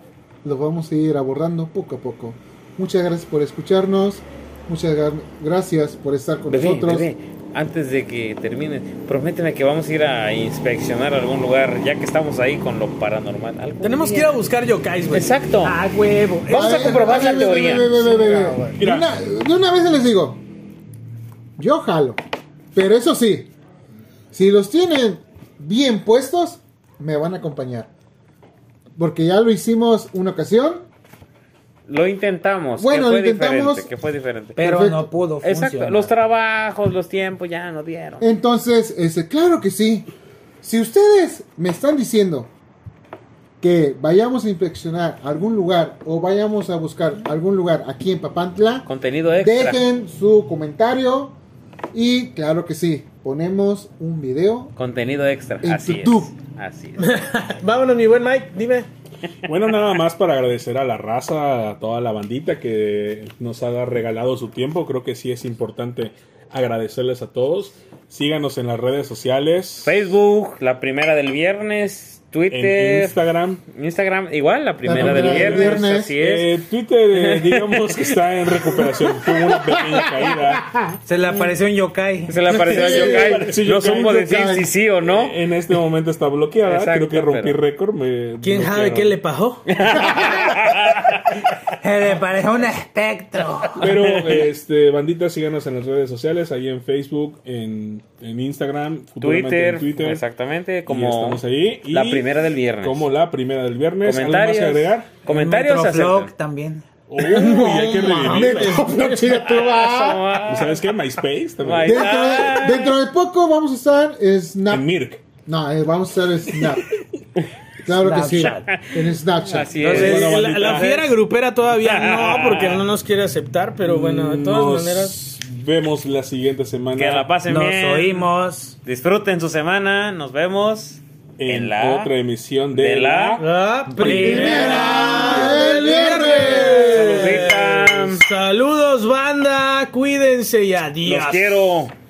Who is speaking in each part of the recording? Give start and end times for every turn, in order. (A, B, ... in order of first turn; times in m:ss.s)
0:00.4-0:07.1 A
0:06.5-0:14.4 B
0:13.8-0:18.8 C
0:15.1-0:15.8 B
0:16.5-0:18.3 B
0:16.5-0:20.4 A
0:18.8-0:19.1 D
0:21.6-0:22.2 A
0:22.8-0:23.5 A
0:24.3-0:27.9 A
0:29.0-0:30.8 A
0:31.9-0:34.7 B
0:32.8-0:33.9 A
0:34.6-0:36.1 E
0:34.6-0:35.1 A
0:35.4-0:38.2 B
0:38.2-0:40.1 A
0:40.6-0:42.5 A
0:43.6-0:51.4 A
0:48.9-0:49.8 B
0:51.9-0:54.7 A
0:54.8-0:57.3 B
0:55.6-0:56.3 A
0:57.0-0:58.9 C
0:59.5-1:10.0 D
1:09.8-1:13.2 B
1:12.5-1:13.6 D
1:13.7-1:16.5 B
1:14.8-1:16.1 A
1:14.9-1:20.8 D
1:17.1-1:19.4 B
1:21.1-1:22.8 E
1:21.3-1:21.6 B
1:22.3-1:25.4 B
1:22.5-1:24.7 A
1:22.7-1:24.2 D
1:25.0-1:29.2 D
1:26.6-1:27.6 B
1:28.4-1:29.8 C
1:29.7-1:31.4 B
1:31.8-1:33.9 E
1:33.8-1:40.2 D
1:34.1-1:34.4 B
1:39.2-1:43.1 B
1:40.9-1:42.3 D
1:42.8-1:45.2 D
1:44.0-1:46.3 B
1:45.3-1:46.9 E
1:47.1-1:48.8 D
1:47.2-1:49.4 C
1:48.2-1:50.2 A
1:49.6-1:50.8 B
1:50.4-1:52.1 D
1:51.6-1:53.0 B
1:51.8-1:54.9 A
1:54.7-1:55.2 D
1:55.4-1:56.9 A
1:57.8-1:59.7 A
1:57.9-1:58.7 E
1:58.4-2:01.0 B
1:59.8-2:01.0 D
1:59.8-2:05.2 C
2:01.7-2:02.8 B
2:03.8-2:07.3 D
2:06.9-2:08.3 B
2:07.5-2:08.8 E
2:08.8-2:12.1 B
2:11.4-2:13.5 D
2:12.8-2:13.4 B
2:13.4-2:21.6 C
2:14.0-2:16.2 E
2:14.0-2:14.3 D
2:14.2-2:17.1 A
2:14.4-2:15.6 B
2:16.3-2:18.2 B
2:21.0-2:21.9 B